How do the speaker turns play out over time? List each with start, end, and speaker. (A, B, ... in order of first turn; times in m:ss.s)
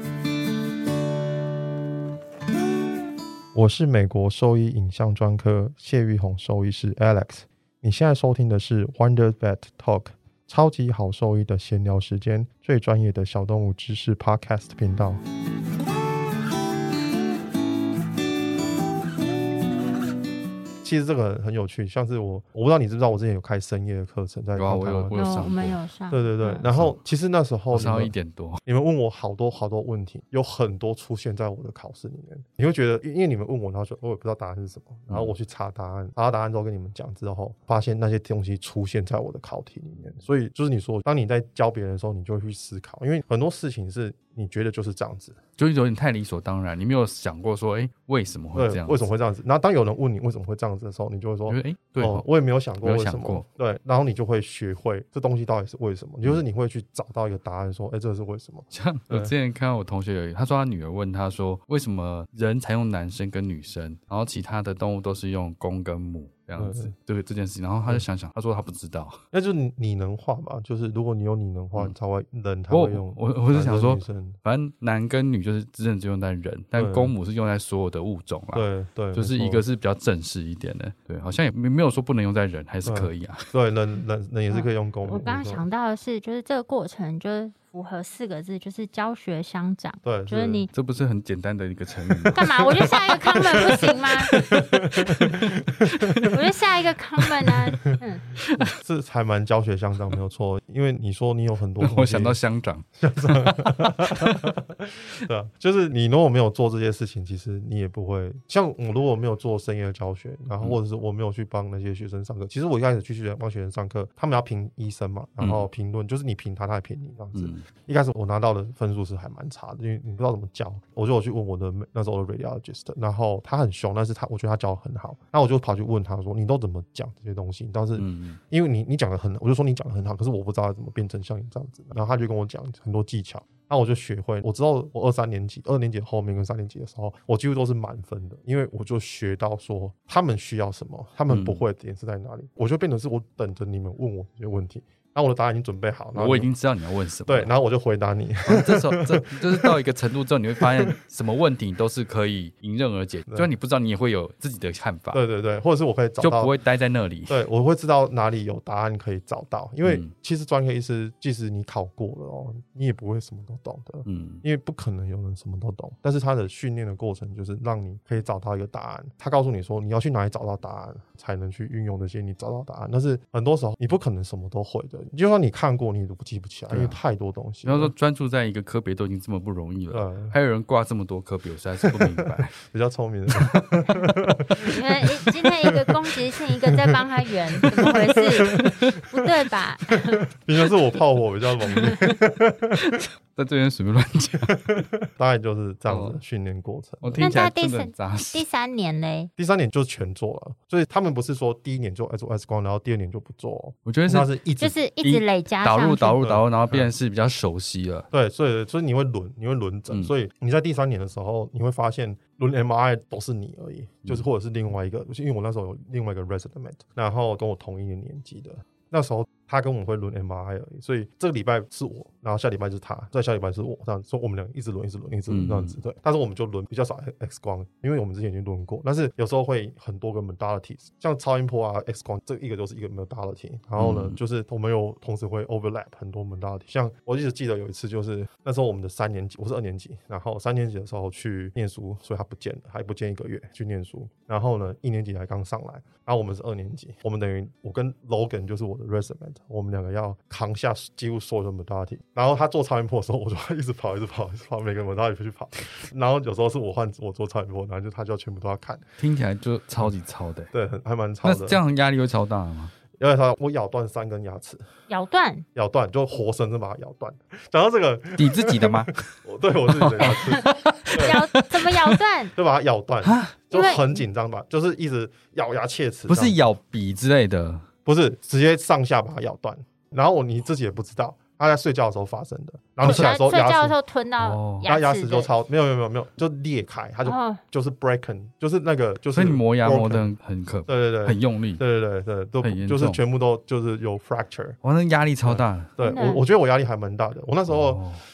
0:03.5-0:15.2 A
0:20.8-0:25.2 A
0:24.6-0:25.8 B
0:25.1-0:26.7 C
0:26.1-0:28.1 A
0:27.7-0:28.6 B
0:28.7-0:45.4 A
0:45.6-0:49.0 B
0:48.6-0:59.3 A
0:51.5-0:52.2 B
0:52.8-0:53.4 B
0:58.7-1:09.2 B
1:06.6-1:06.9 A
1:09.3-1:14.4 A
1:12.7-1:23.5 B
1:16.8-1:17.1 A
1:18.5-1:19.6 A
1:22.8-1:25.6 A
1:24.5-1:30.7 C
1:30.0-1:30.7 A
1:30.7-1:36.4 B
1:32.1-1:36.3 A
1:32.4-1:34.3 C
1:36.3-1:38.2 C
1:37.2-1:37.9 B
1:38.4-1:38.7 B
1:38.6-1:42.4 A
1:41.8-1:44.5 B
1:43.0-2:26.5 A
1:55.4-1:55.7 B
1:57.4-1:57.6 B
2:08.0-2:08.4 B
2:21.3-2:21.6 B
2:26.2-2:27.5 B
2:27.3-2:29.8 A
2:28.5-2:35.2 B
2:30.6-2:31.0 A
2:35.1-2:36.5 A
2:36.2-2:37.4 B
2:37.3-2:57.9 A
2:44.1-2:44.4 B
2:56.7-2:57.0 B
2:57.6-3:02.6 B
2:59.9-3:00.3 A
3:01.8-3:05.9 A
3:03.3-3:03.7 B
3:04.6-3:10.3 C
3:06.7-3:08.9 A
3:08.4-3:09.1 B
3:10.2-3:13.0 A
3:11.7-3:12.1 C
3:11.8-3:12.1 B
3:12.8-3:14.8 B
3:14.4-3:17.3 A
3:15.9-3:16.2 B
3:17.0-3:18.5 B
3:17.2-3:19.3 C
3:19.4-3:24.8 A
3:23.9-3:24.3 B
3:24.6-3:26.2 C
3:25.0-3:28.1 B
3:26.2-3:26.9 A
3:28.1-4:18.8 A
3:45.3-3:45.8 B
3:53.8-3:54.2 B
4:19.0-4:20.5 B
4:20.5-4:21.6 A
4:21.2-4:22.7 B
4:23.0-4:24.7 A
4:24.9-4:25.4 C
4:25.6-4:31.3 A
4:28.2-4:29.1 B
4:29.7-4:32.0 B
4:31.0-4:32.3 C
4:32.4-4:36.4 A
4:33.0-4:33.4 B
4:33.5-4:34.0 C
4:36.1-4:37.7 B
4:37.9-4:43.8 A
4:42.8-4:45.3 C
4:44.2-4:44.7 B
4:44.6-4:50.1 A
4:47.0-4:47.4 C
4:49.2-4:51.6 B
4:50.7-4:54.6 A
4:52.4-4:53.0 B
4:54.6-4:55.7 B
4:55.2-4:57.8 A
4:55.8-4:56.2 C
4:57.5-4:58.0 B